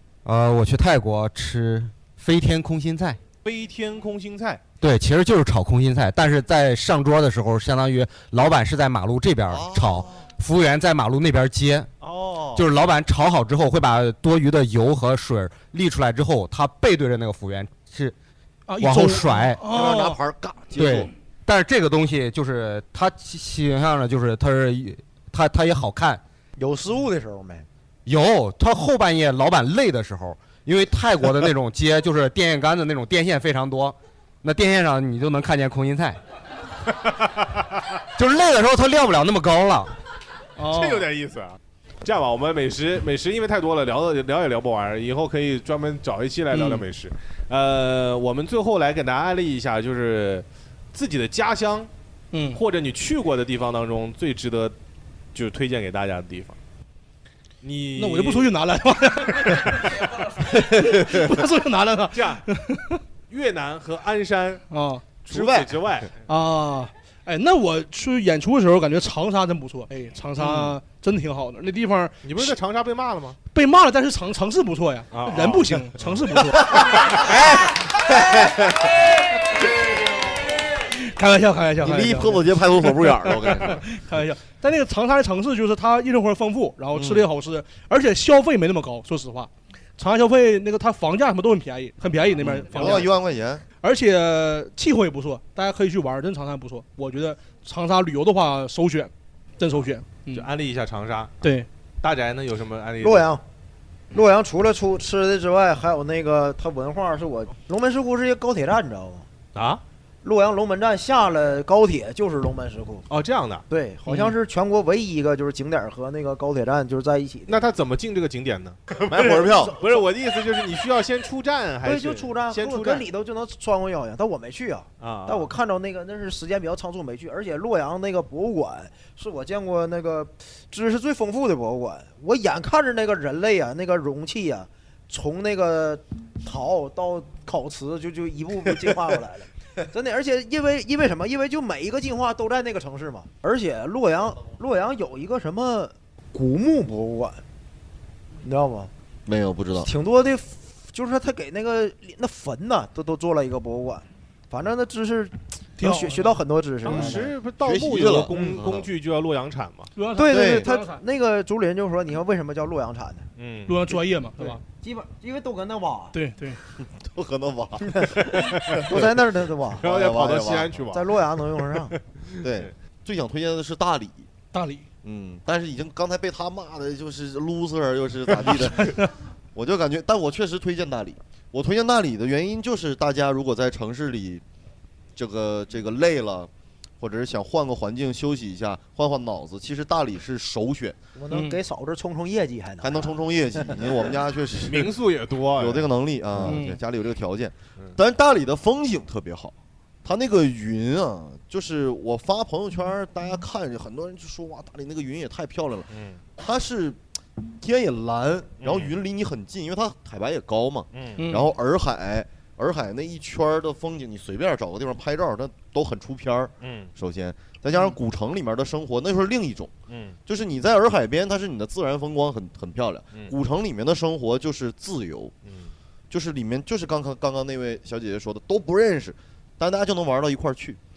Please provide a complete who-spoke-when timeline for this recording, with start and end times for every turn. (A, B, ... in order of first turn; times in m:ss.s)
0:00.2-0:03.2 A
0:03.4-0:04.6 B
0:04.8-0:11.9 A
0:09.5-0:10.2 C
0:12.0-0:12.6 B
0:12.5-0:18.1 A
0:18.7-0:20.2 D
0:18.8-0:19.6 A
0:19.6-0:21.1 C
0:20.7-0:26.2 A
0:26.6-0:27.7 E
0:28.0-0:36.2 A
0:38.2-0:39.9 A
0:40.6-0:41.0 D
0:40.7-0:51.9 B
0:46.5-0:46.8 D
0:52.3-0:52.6 D
0:52.5-0:54.7 B
0:55.3-0:56.6 B
0:57.6-0:58.5 B
0:58.0-1:03.0 D
1:00.8-1:01.0 C
1:02.1-1:02.4 B
1:03.3-1:04.6 B
1:04.7-1:05.0 D
1:05.2-1:06.1 B
1:05.3-1:05.8 C
1:06.3-1:12.5 D
1:10.4-1:10.7 B
1:12.2-1:13.4 B
1:13.5-1:16.7 D
1:15.1-1:16.1 B
1:16.7-1:18.9 C
1:20.9-1:22.4 D
1:21.8-1:23.8 C
1:23.6-1:33.1 D
1:26.9-1:27.3 C
1:32.4-1:33.6 C
1:33.8-1:40.4 D
1:40.3-1:41.3 B
1:41.4-1:41.7 D
1:42.0-1:43.3 B
1:43.0-1:43.4 E
1:44.1-1:49.3 E
1:49.5-1:49.8 B
1:50.2-1:53.0 E
1:53.1-1:53.6 B
1:53.7-1:57.6 E
1:57.5-2:03.0 B
1:59.1-1:59.8 C
1:59.3-2:00.0 E
2:01.8-2:27.4 E
2:05.0-2:05.5 B
2:28.4-2:28.9 E
2:29.2-2:29.9 C
2:29.8-2:37.3 E
2:35.8-2:36.4 D
2:36.8-2:39.9 B
2:36.9-2:38.9 C
2:38.3-2:38.6 E
2:40.0-2:41.0 D
2:40.2-2:43.2 E
2:40.3-2:40.7 C
2:43.4-2:43.8 B
2:43.7-2:44.6 D
2:44.4-2:46.2 E
2:46.1-2:46.6 D
2:46.8-2:49.1 C
2:47.9-2:49.8 E
2:49.8-2:50.8 C
2:49.8-2:52.7 B
2:50.9-2:51.9 E
2:52.4-2:54.3 C
2:54.5-2:54.9 D
2:55.0-3:04.4 C
2:58.5-2:59.1 D
3:05.2-3:11.0 C
3:11.1-3:13.9 E
3:11.3-3:11.6 D
3:12.8-3:15.0 C
3:14.6-3:15.9 B
3:15.6-3:27.0 C
3:16.4-3:16.8 D
3:25.9-3:26.2 B
3:27.6-3:39.7 C
3:28.6-3:28.9 B
3:30.9-3:31.2 B
3:31.2-3:31.5 D
3:36.6-3:36.9 B
3:39.9-3:40.2 B
3:40.2-3:45.3 C
3:45.4-3:45.7 B
3:46.1-3:50.8 C